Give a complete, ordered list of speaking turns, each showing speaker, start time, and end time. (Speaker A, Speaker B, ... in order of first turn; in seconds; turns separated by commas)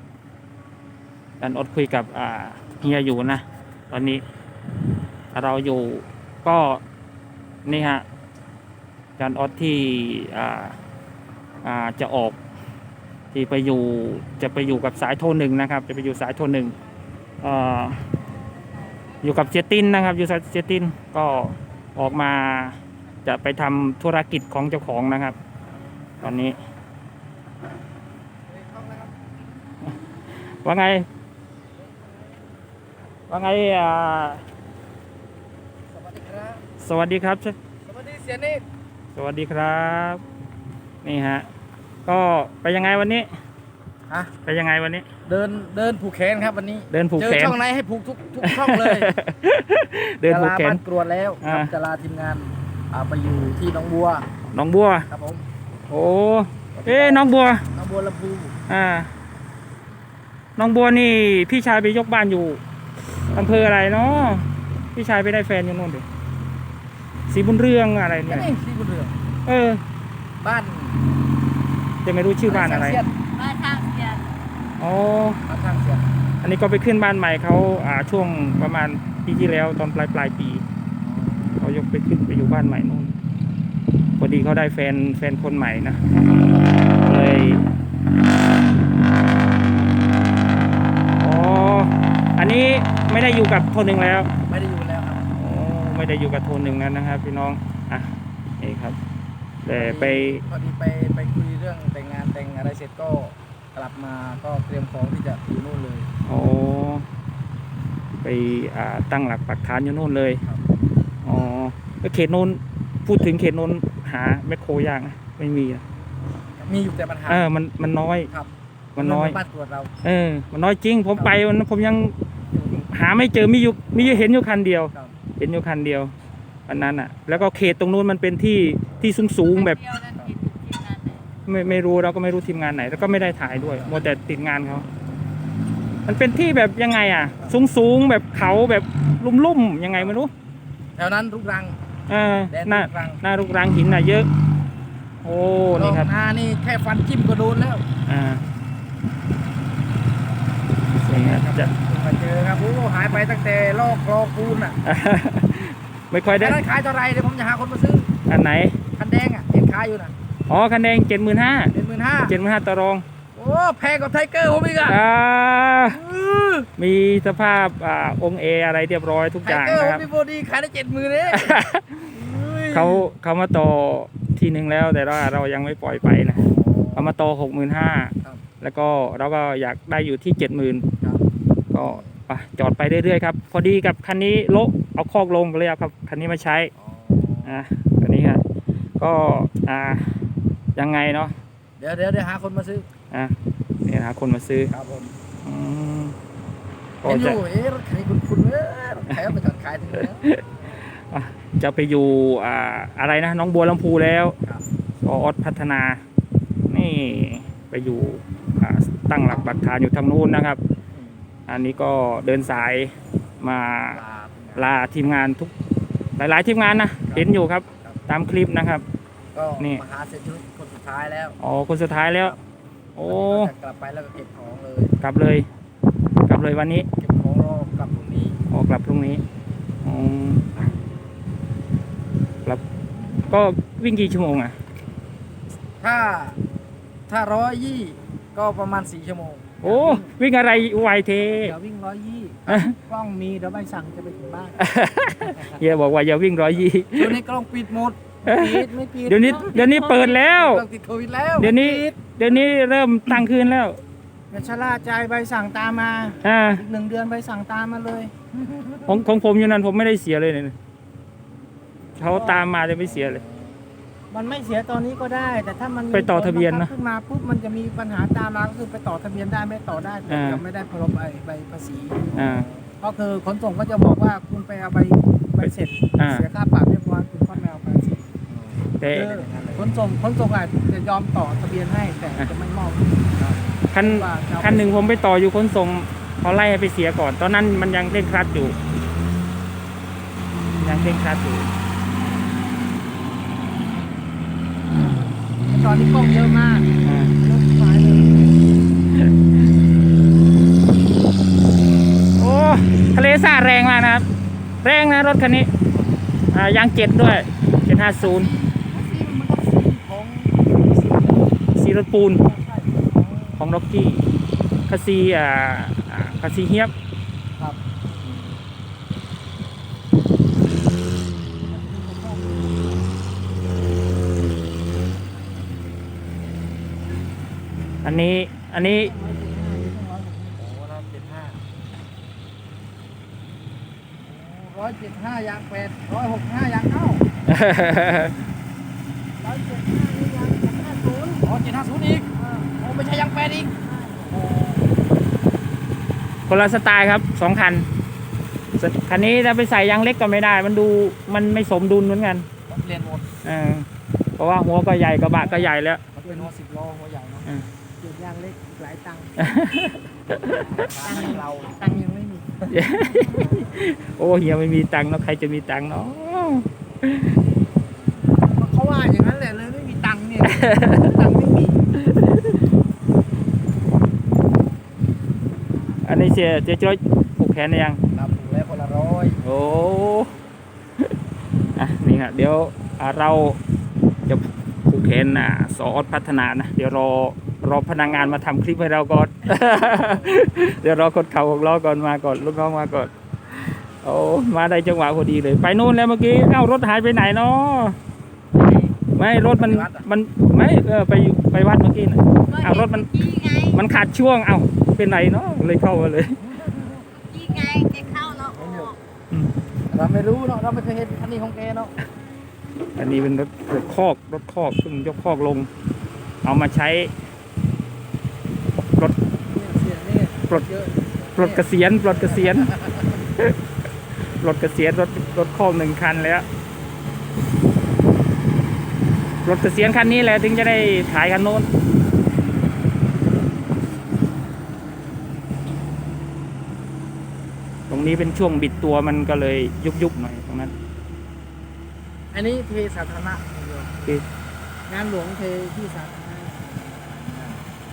Speaker A: 1.4-4.2, Speaker A: 5.3-6.8, Speaker A: 7.7-8.1, Speaker A: 9.2-10.8, Speaker A: 11.6-12.4, Speaker A: 13.3-16.7, Speaker A: 17.4-18.0, Speaker A: 19.2-25.4, Speaker A: 26.2-26.6, Speaker B: 28.5-29.2, Speaker A: 30.5-31.1, Speaker B: 31.8-32.5, Speaker A: 33.3-34.4, Speaker B: 35.9-36.6, Speaker A: 36.8-37.6, Speaker B: 37.8-38.6, Speaker A: 39.1-40.2, Speaker A: 41.0-41.5, Speaker A: 42.1-43.3, Speaker A: 44.4-45.1, Speaker B: 45.2-49.1, Speaker A: 46.9-47.6, Speaker A: 48.4-50.8, Speaker B: 50.2-54.3, Speaker A: 51.4-51.7, Speaker A: 54.5-55.1, Speaker B: 55.1-55.5, Speaker A: 55.9-57.6, Speaker B: 56.8-58.6, Speaker A: 58.7-59.1, Speaker A: 60.6-62.6, Speaker A: 63.2-66.0, Speaker A: 67.3-68.5, Speaker B: 68.3-69.2, Speaker A: 69.5-69.8, Speaker B: 70.4-71.0, Speaker A: 72.0-73.0, Speaker B: 72.5-73.1, Speaker C: 73.3-74.3, Speaker A: 74.8-75.4, Speaker B: 75.5-76.1, Speaker A: 76.4-80.6, Speaker B: 81.0-81.7, Speaker A: 81.6-83.1, Speaker A: 84.2-86.0, Speaker A: 87.0-87.7, Speaker A: 91.2-94.3, Speaker B: 94.5-95.2, Speaker A: 95.3-99.0, Speaker A: 99.6-100.4, Speaker B: 99.7-106.1, Speaker A: 106.3-107.1, Speaker A: 108.2-110.4, Speaker A: 111.2-115.8, Speaker B: 116.6-117.5, Speaker A: 117.3-118.3, Speaker B: 118.3-119.9, Speaker A: 119.0-119.4, Speaker A: 120.0-126.1, Speaker A: 126.7-129.9, Speaker C: 129.6-131.2, Speaker A: 131.5-134.9, Speaker A: 136.1-140.3, Speaker B: 141.0-141.8, Speaker A: 142.1-144.3, Speaker B: 142.5-143.2, Speaker A: 145.2-146.1, Speaker B: 145.7-147.8, Speaker A: 148.1-148.4, Speaker A: 150.9-151.7, Speaker B: 151.2-154.8, Speaker A: 154.8-156.6, Speaker B: 156.3-158.1, Speaker A: 158.3-158.8, Speaker B: 158.9-160.1, Speaker A: 160.5-161.7, Speaker B: 161.7-162.4, Speaker A: 162.3-163.0, Speaker B: 163.3-165.0, Speaker A: 164.8-166.0, Speaker B: 165.9-166.7, Speaker A: 166.8-170.0, Speaker B: 169.4-173.1, Speaker A: 171.3-172.1, Speaker A: 172.7-180.9, Speaker B: 176.3-177.1, Speaker B: 181.0-181.3, Speaker A: 181.7-186.7, Speaker B: 186.8-187.6, Speaker A: 187.4-188.4, Speaker A: 189.0-190.2, Speaker A: 190.8-191.4, Speaker B: 191.8-192.9, Speaker A: 193.1-194.7, Speaker B: 194.7-195.2, Speaker A: 195.4-196.2, Speaker A: 197.0-197.4, Speaker B: 197.0-200.2, Speaker A: 200.0-200.4, Speaker A: 201.0-204.4, Speaker A: 205.0-206.0, Speaker A: 206.7-210.6, Speaker B: 210.9-211.2, Speaker A: 211.5-214.0, Speaker B: 213.9-214.7, Speaker A: 214.6-215.5, Speaker A: 216.2-218.8, Speaker B: 217.1-217.3, Speaker B: 219.3-221.4, Speaker A: 221.4-222.3, Speaker A: 223.0-223.5, Speaker B: 223.1-224.9, Speaker A: 225.0-225.5, Speaker A: 226.3-226.9, Speaker B: 227.0-228.4, Speaker A: 228.5-229.2, Speaker A: 229.8-230.5, Speaker A: 233.3-234.6, Speaker B: 235.8-236.4, Speaker B: 237.1-239.5, Speaker A: 239.6-241.5, Speaker D: 239.6-240.1, Speaker D: 241.4-244.6, Speaker A: 242.5-242.8, Speaker A: 244.6-247.2, Speaker B: 246.9-248.1, Speaker D: 248.2-250.2, Speaker A: 248.3-250.6, Speaker B: 250.2-251.6, Speaker A: 251.4-253.8, Speaker D: 251.4-252.0, Speaker D: 254.3-258.1, Speaker A: 256.2-256.6, Speaker B: 258.4-258.9, Speaker A: 258.9-260.6, Speaker A: 262.0-263.2, Speaker D: 262.1-262.4, Speaker B: 262.8-263.6, Speaker D: 264.1-272.1, Speaker A: 265.9-266.7, Speaker A: 270.1-270.4, Speaker B: 272.1-272.7, Speaker A: 272.1-272.5, Speaker D: 272.8-278.1, Speaker A: 275.4-276.2, Speaker B: 278.3-279.8, Speaker A: 278.8-279.2, Speaker D: 278.9-283.1, Speaker B: 283.2-283.5, Speaker A: 283.7-288.6, Speaker D: 283.8-284.8, Speaker A: 290.6-291.5, Speaker D: 295.5-298.6, Speaker A: 296.8-297.2, Speaker A: 302.2-304.1, Speaker A: 304.6-305.5, Speaker A: 306.3-308.3, Speaker D: 308.0-311.4, Speaker A: 311.5-312.2, Speaker D: 312.1-313.4, Speaker A: 313.4-314.1, Speaker A: 314.7-316.7, Speaker D: 321.5-322.6, Speaker A: 327.8-328.9, Speaker D: 328.6-330.4, Speaker B: 330.4-331.4, Speaker B: 334.0-337.1, Speaker A: 337.3-338.2, Speaker D: 339.2-341.3, Speaker B: 341.2-343.5, Speaker D: 342.2-342.5, Speaker D: 343.6-344.2, Speaker B: 344.1-344.7, Speaker A: 346.3-347.7, Speaker A: 348.6-352.3, Speaker B: 352.5-353.1, Speaker A: 353.2-353.7, Speaker A: 354.2-355.8, Speaker D: 355.2-355.5, Speaker B: 355.9-357.3, Speaker D: 357.8-359.4, Speaker A: 359.2-360.6, Speaker D: 360.4-363.5, Speaker B: 360.5-361.8, Speaker A: 362.5-367.1, Speaker D: 368.3-371.6, Speaker A: 370.4-370.8, Speaker A: 371.9-372.2, Speaker A: 375.8-377.8, Speaker B: 377.9-379.2, Speaker A: 379.2-380.1, Speaker A: 381.5-383.4, Speaker A: 384.1-397.8, Speaker C: 398.4-398.8, Speaker A: 398.9-402.9, Speaker B: 399.3-399.9, Speaker C: 402.3-403.6, Speaker A: 403.5-406.2, Speaker B: 406.3-407.0, Speaker C: 407.1-408.8, Speaker B: 407.7-408.8, Speaker B: 409.7-411.7, Speaker A: 412.8-415.5, Speaker A: 416.2-416.9, Speaker D: 419.3-421.5, Speaker A: 421.2-422.6, Speaker B: 422.5-422.8, Speaker A: 424.2-426.3, Speaker A: 429.2-431.5, Speaker A: 437.7-440.5, Speaker B: 442.1-443.8, Speaker D: 444.7-446.9, Speaker B: 447.0-447.4